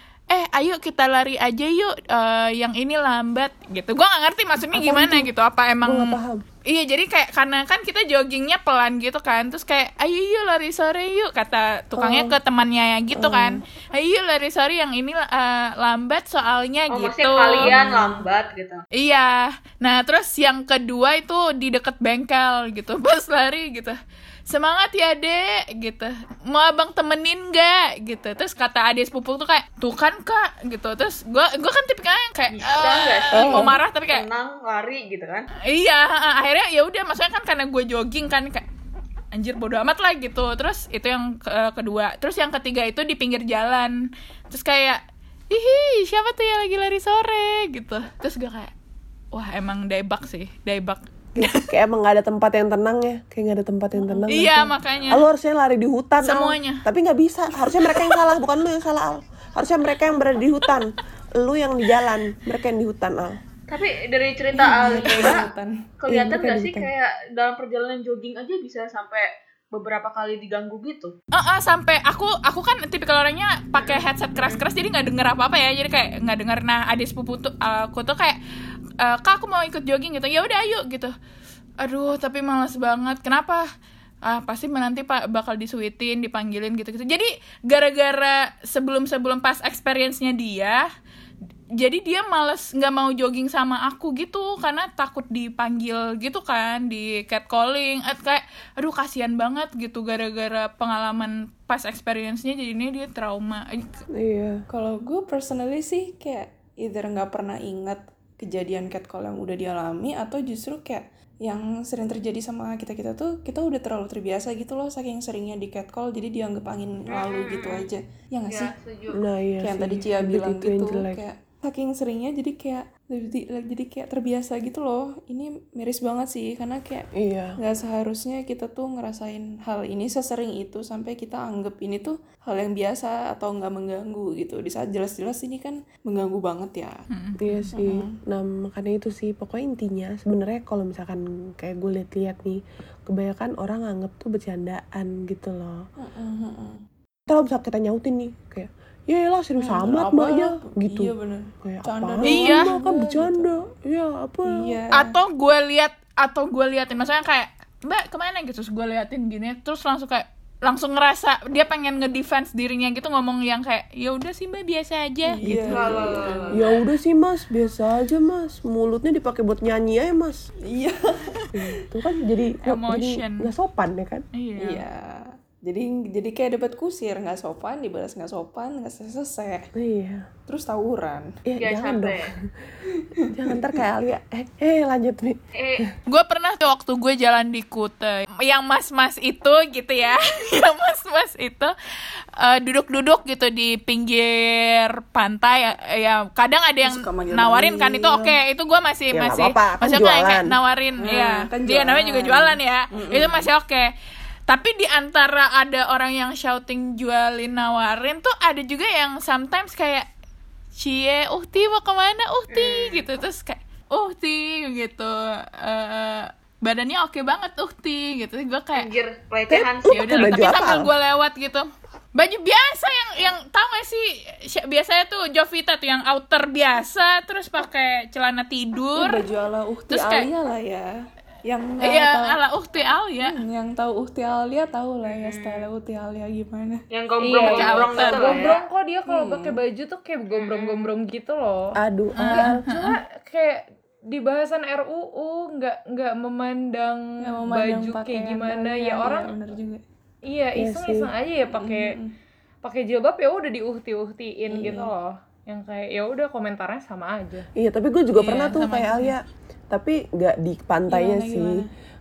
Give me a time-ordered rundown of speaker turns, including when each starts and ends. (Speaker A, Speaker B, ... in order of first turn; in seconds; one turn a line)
Speaker A: 0.3-18.2
Speaker B: 4.7-5.3
Speaker B: 5.8-6.4
Speaker B: 11.9-12.3
Speaker B: 13.1-13.6
Speaker C: 16.9-18.8
Speaker A: 18.9-24.0
Speaker A: 24.5-34.2
Speaker C: 32.5-35.5
Speaker B: 33.4-33.7
Speaker A: 35.6-38.6
Speaker A: 39.3-44.0
Speaker A: 44.5-45.0
Speaker A: 45.5-48.7
Speaker A: 49.3-51.7
Speaker B: 51.4-63.4
Speaker D: 54.1-54.6
Speaker A: 54.3-55.2
Speaker A: 56.2-56.8
Speaker A: 57.8-58.2
Speaker C: 63.7-65.4
Speaker D: 64.5-65.7
Speaker C: 66.0-71.1
Speaker B: 66.1-66.9
Speaker A: 71.3-78.4
Speaker C: 73.8-74.6
Speaker A: 79.0-81.1
Speaker A: 81.8-83.6
Speaker A: 84.2-90.8
Speaker A: 91.8-104.0
Speaker B: 104.1-104.6
Speaker D: 104.7-118.7
Speaker C: 117.1-117.9
Speaker C: 118.5-119.2
Speaker B: 119.1-121.2
Speaker D: 119.6-136.9
Speaker B: 127.2-127.5
Speaker A: 137.1-137.7
Speaker B: 137.4-145.8
Speaker D: 137.7-138.2
Speaker D: 146.0-146.8
Speaker B: 147.3-151.1
Speaker D: 149.6-153.7
Speaker B: 151.6-154.5
Speaker A: 152.2-152.7
Speaker D: 154.5-155.2
Speaker A: 154.9-165.4
Speaker D: 165.4-166.7
Speaker B: 165.4-170.4
Speaker C: 165.7-166.5
Speaker D: 170.7-171.5
Speaker B: 171.5-174.2
Speaker A: 172.6-173.5
Speaker A: 174.3-174.8
Speaker D: 174.6-179.7
Speaker B: 179.8-180.3
Speaker D: 180.5-181.2
Speaker B: 181.5-182.4
Speaker C: 181.6-182.3
Speaker D: 182.8-183.8
Speaker B: 183.3-185.9
Speaker C: 185.5-185.9
Speaker A: 186.1-191.7
Speaker A: 192.4-203.9
Speaker D: 196.8-198.3
Speaker B: 199.1-200.5
Speaker D: 201.0-203.5
Speaker A: 204.5-210.1
Speaker A: 210.8-218.9
Speaker C: 212.5-213.0
Speaker C: 218.8-220.5
Speaker B: 219.5-220.9
Speaker A: 219.9-229.2
Speaker D: 228.9-230.9
Speaker A: 229.9-230.3
Speaker D: 231.4-232.4
Speaker A: 231.8-233.4
Speaker D: 233.2-236.8
Speaker C: 235.0-235.7
Speaker C: 236.9-238.6
Speaker E: 237.2-241.8
Speaker A: 237.4-238.5
Speaker D: 239.1-239.5
Speaker C: 240.3-240.9
Speaker B: 241.8-242.6
Speaker A: 242.2-243.0
Speaker E: 242.4-249.3
Speaker D: 247.2-249.8
Speaker E: 250.3-251.9
Speaker B: 250.6-251.1
Speaker D: 251.5-252.1
Speaker E: 252.6-257.5
Speaker D: 254.5-254.9
Speaker B: 257.6-261.4
Speaker A: 258.2-259.1
Speaker D: 260.9-261.7